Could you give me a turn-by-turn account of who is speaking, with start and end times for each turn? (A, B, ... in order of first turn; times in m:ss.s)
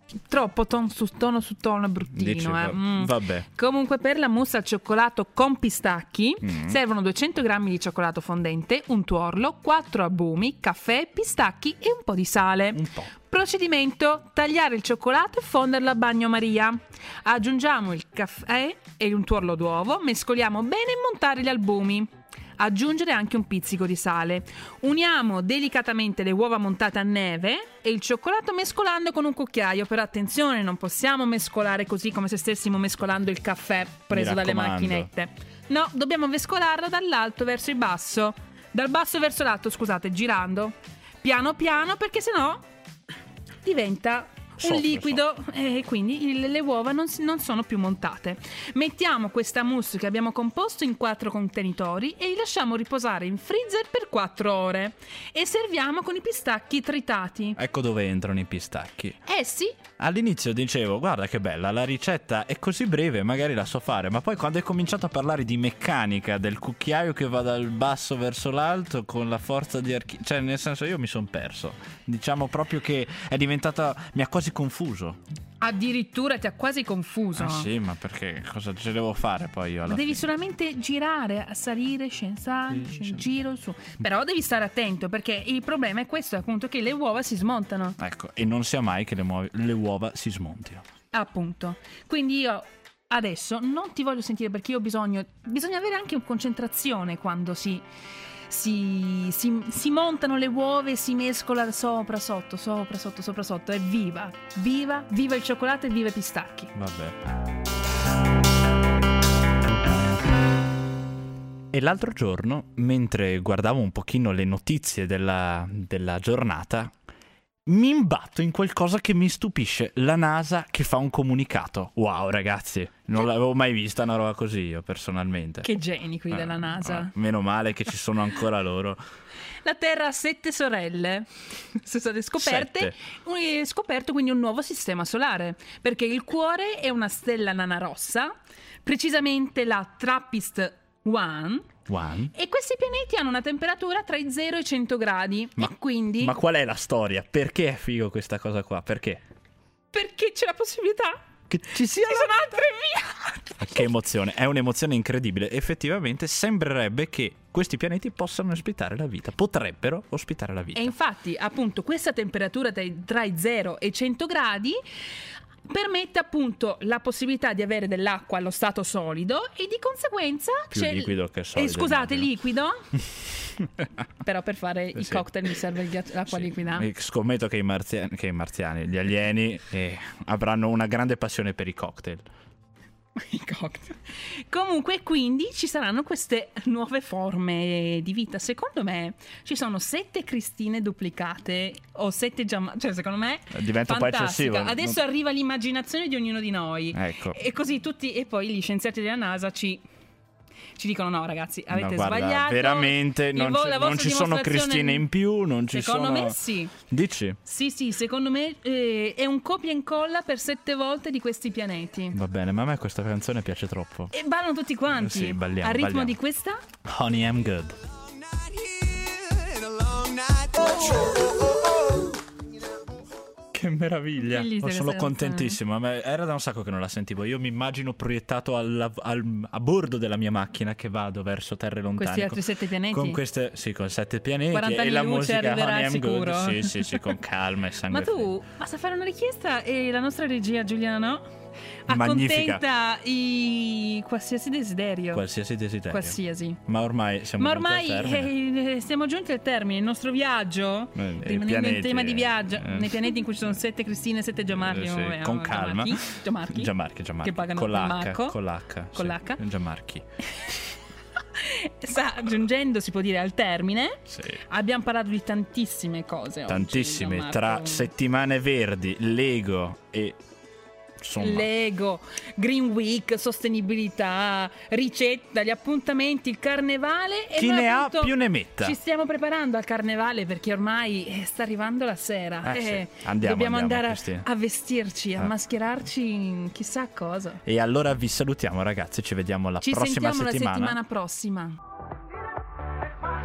0:00.3-0:42.6 A
0:02.2-0:03.5 B
0:06.4-0:06.8 B
0:12.8-0:13.1 B
0:34.1-0:35.1 B
0:43.6-0:57.6 A
0:44.6-0:45.2 B
0:57.6-0:59.2 B
0:59.3-0:59.8 A
1:00.0-1:15.2 B
1:15.6-1:17.7 A
1:17.4-1:20.2 B
1:19.9-1:28.0 A
1:22.7-1:23.2 B
1:28.0-1:30.8 B
1:31.1-1:37.8 A
1:38.5-1:46.7 A
1:46.8-1:47.2 B
1:51.7-1:56.9 B
1:57.7-2:05.7 B
2:05.6-2:07.1 A
2:06.3-2:09.0 B
2:09.6-2:18.3 A
2:12.4-2:13.0 B
2:18.8-2:21.7 A
2:21.9-2:22.3 B
2:22.4-2:26.4 A
2:25.6-2:29.2 B
2:29.9-2:31.2 A
2:31.5-2:32.5 B
2:32.0-2:33.9 A
2:33.6-2:40.9 B
2:40.8-2:44.8 A
2:45.7-2:52.8 A
2:50.7-2:52.3 B
2:54.2-2:56.9 A
2:55.0-2:55.2 B
2:56.3-3:02.2 B
3:03.2-3:19.8 A
3:13.5-3:15.0 B
3:16.9-3:17.4 B
3:20.8-3:25.1 A
3:21.7-3:26.4 B
3:25.7-3:26.7 A
3:26.9-3:27.4 B
3:27.5-3:32.2 A
3:32.1-3:34.1 B
3:34.1-3:36.6 A
3:35.0-3:36.2 B
3:36.8-3:37.8 B
3:43.5-3:58.3 B
3:44.2-3:45.6 A
3:52.0-3:53.2 A
3:54.5-3:57.0 A
3:57.9-4:01.3 A
4:01.9-4:02.6 B
4:01.9-4:05.2 A
4:05.1-4:08.3 B
4:05.9-4:06.6 A
4:07.4-4:18.4 A
4:11.0-4:13.6 B
4:14.6-4:20.0 B
4:19.0-4:19.4 A
4:21.4-4:27.9 A
4:24.1-4:24.4 B
4:26.5-4:30.2 B
4:31.0-4:31.5 B
4:31.2-4:47.4 A
4:37.4-4:38.8 B
4:42.4-4:44.3 B
4:47.4-4:50.8 B
4:49.6-4:51.6 A